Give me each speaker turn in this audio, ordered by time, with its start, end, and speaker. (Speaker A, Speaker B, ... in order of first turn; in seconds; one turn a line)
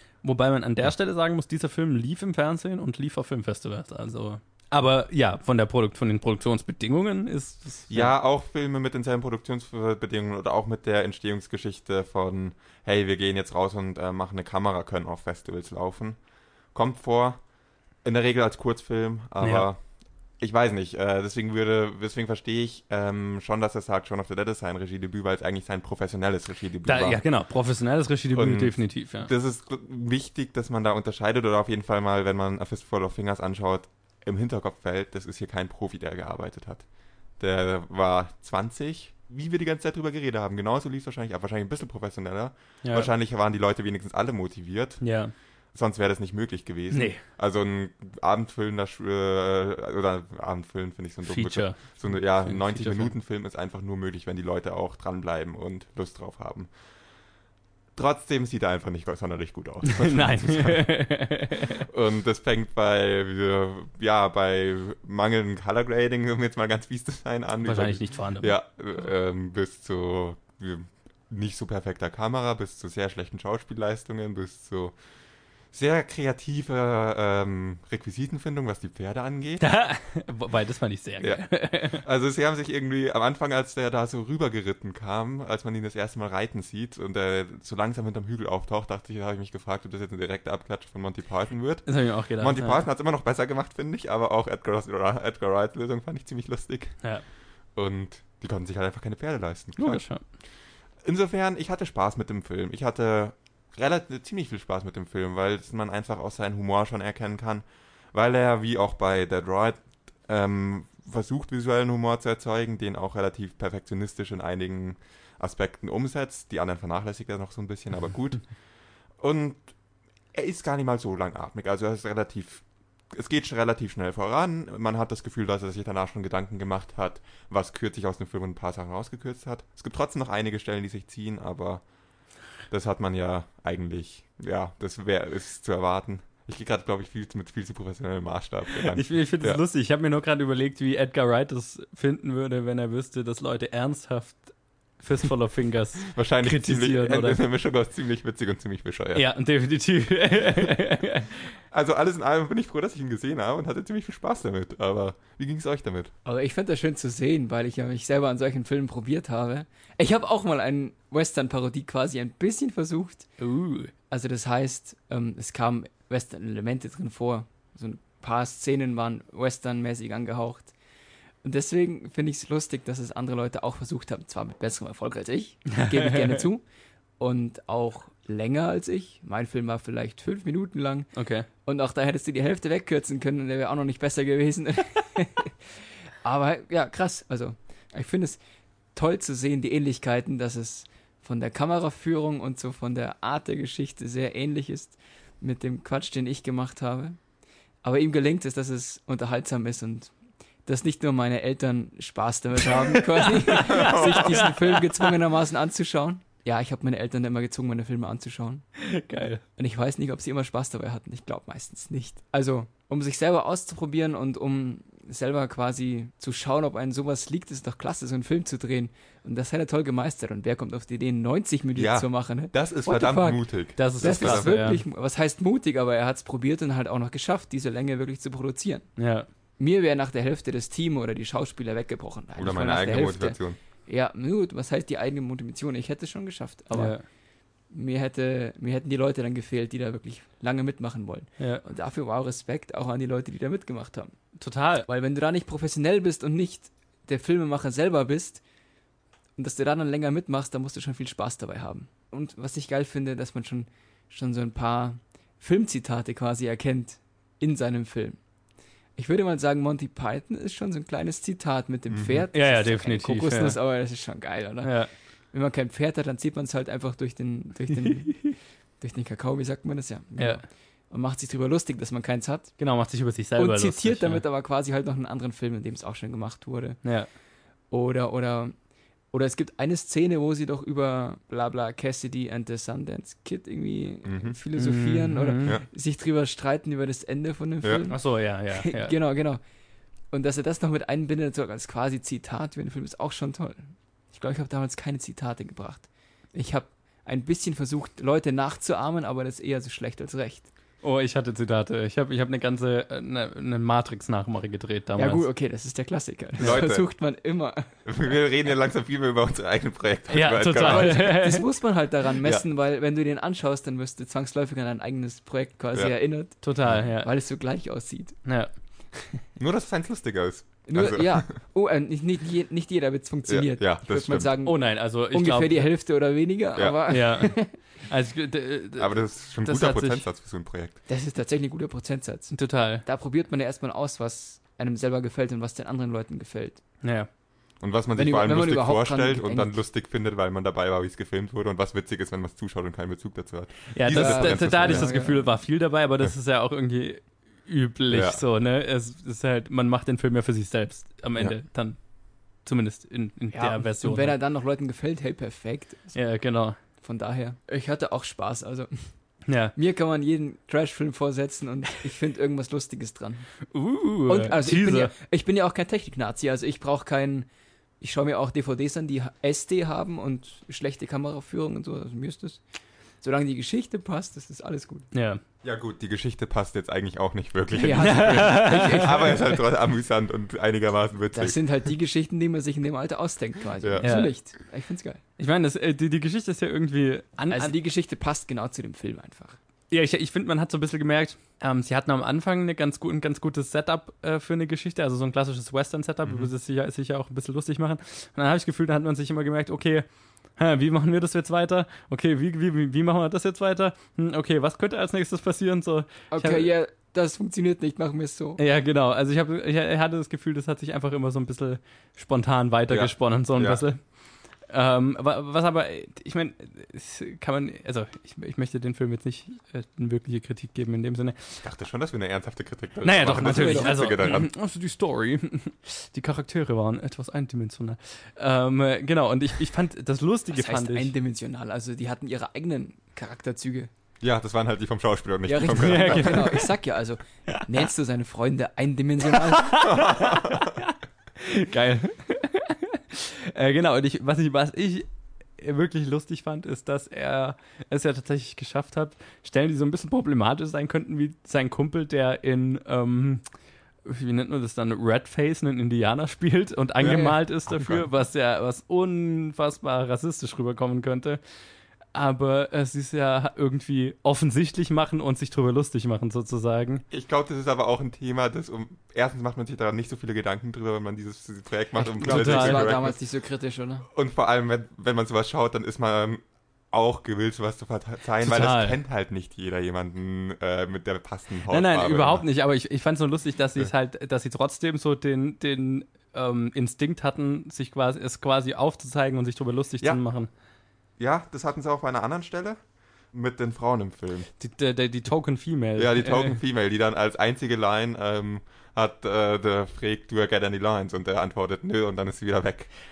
Speaker A: 0.2-8.1
Speaker B: 7.9-16.2
Speaker B: 16.7-17.4
Speaker B: 18.0-19.8
Speaker A: 19.4-19.7
Speaker B: 20.4-27.2
Speaker A: 26.8-29.3
Speaker B: 28.3-36.8
Speaker B: 37.4-45.0
Speaker A: 42.8-43.1
Speaker A: 45.0-45.3
Speaker B: 45.7-56.7
Speaker A: 46.9-47.2
Speaker A: 51.2-53.1
Speaker B: 58.0-60.9
Speaker A: 59.8-61.8
Speaker B: 61.7-75.0
Speaker A: 67.6-68.6
Speaker B: 75.7-79.6
Speaker A: 79.6-82.0
Speaker B: 81.2-97.0
Speaker A: 91.8-92.8
Speaker B: 97.7-100.0
Speaker A: 99.8-100.2
Speaker B: 101.0-118.5
Speaker B: 119.2-119.6
Speaker B: 120.3-131.8
Speaker B: 132.7-139.6
Speaker A: 138.8-147.4
Speaker B: 146.1-149.2
Speaker A: 149.1-151.5
Speaker B: 151.7-156.1
Speaker C: 156.2-163.3
Speaker A: 163.4-163.9
Speaker C: 164.1-170.7
Speaker C: 171.4-176.6
Speaker A: 175.7-176.4
Speaker C: 177.2-181.1
Speaker A: 181.1-181.5
Speaker C: 181.6-188.4
Speaker C: 188.9-197.2
Speaker C: 197.8-200.1
Speaker C: 200.7-208.6
Speaker A: 202.7-205.1
Speaker B: 203.7-204.3
Speaker A: 208.8-209.4
Speaker C: 209.6-228.9
Speaker B: 221.7-224.5
Speaker A: 223.8-224.8
Speaker A: 229.0-229.3
Speaker C: 229.6-237.0
Speaker B: 232.4-233.6
Speaker A: 236.7-237.0
Speaker C: 237.7-244.1
Speaker A: 241.4-241.6
Speaker A: 244.4-244.9
Speaker C: 244.8-248.4
Speaker C: 249.4-258.2
Speaker C: 259.0-264.8
Speaker B: 261.9-262.2
Speaker A: 262.3-263.6
Speaker A: 264.6-264.9
Speaker C: 265.3-272.5
Speaker A: 267.8-268.3
Speaker A: 270.2-270.4
Speaker A: 272.6-274.2
Speaker C: 273.4-276.8
Speaker A: 276.8-277.1
Speaker C: 277.7-278.5
Speaker C: 279.1-289.4
Speaker B: 284.0-284.4
Speaker A: 284.6-285.6
Speaker A: 287.9-288.9
Speaker C: 290.1-300.5
Speaker A: 300.8-305.2
Speaker C: 304.9-307.7
Speaker B: 306.4-306.9
Speaker B: 307.9-311.1
Speaker A: 310.1-311.4
Speaker C: 310.6-318.2
Speaker A: 316.4-317.1
Speaker A: 318.2-318.5
Speaker B: 319.4-321.3
Speaker C: 320.7-327.5
Speaker B: 323.3-324.3
Speaker A: 324.4-325.7
Speaker A: 326.9-330.0
Speaker B: 328.8-330.8
Speaker C: 330.9-336.6
Speaker A: 332.3-332.8
Speaker A: 336.8-337.1
Speaker B: 337.6-344.9
Speaker C: 337.9-339.6
Speaker A: 343.7-351.8
Speaker C: 343.9-345.3
Speaker B: 347.9-348.2
Speaker A: 352.4-354.1
Speaker C: 353.3-356.0
Speaker A: 355.9-356.6
Speaker C: 356.8-358.7
Speaker A: 359.3-359.5
Speaker C: 359.5-363.3
Speaker A: 363.5-364.9
Speaker C: 364.1-367.3
Speaker C: 367.8-372.4
Speaker C: 373.0-374.9
Speaker A: 374.9-375.2
Speaker B: 375.4-381.7
Speaker C: 377.5-379.4
Speaker A: 377.8-378.9
Speaker C: 381.1-385.0
Speaker B: 383.6-383.9
Speaker A: 383.8-384.1
Speaker A: 385.2-387.5
Speaker C: 387.3-389.4
Speaker A: 389.7-399.9
Speaker B: 396.0-396.3
Speaker A: 400.4-406.5
Speaker C: 406.1-408.4
Speaker A: 408.4-413.8
Speaker B: 412.7-413.6
Speaker A: 414.5-421.4
Speaker B: 421.4-424.3
Speaker A: 422.8-430.9
Speaker C: 423.1-423.8
Speaker C: 430.4-433.7
Speaker B: 434.0-436.4
Speaker C: 435.2-439.9
Speaker A: 435.5-436.5
Speaker A: 439.3-444.9
Speaker B: 439.6-440.5
Speaker A: 445.4-453.2
Speaker A: 453.8-461.2
Speaker B: 456.8-457.9
Speaker A: 461.9-466.8
Speaker B: 466.9-472.9
Speaker C: 471.9-473.9
Speaker A: 472.0-472.7
Speaker B: 473.9-482.2
Speaker A: 478.2-478.8
Speaker A: 481.5-490.3
Speaker B: 491.0-492.6
Speaker B: 493.1-494.3
Speaker A: 494.4-496.4
Speaker B: 495.8-502.7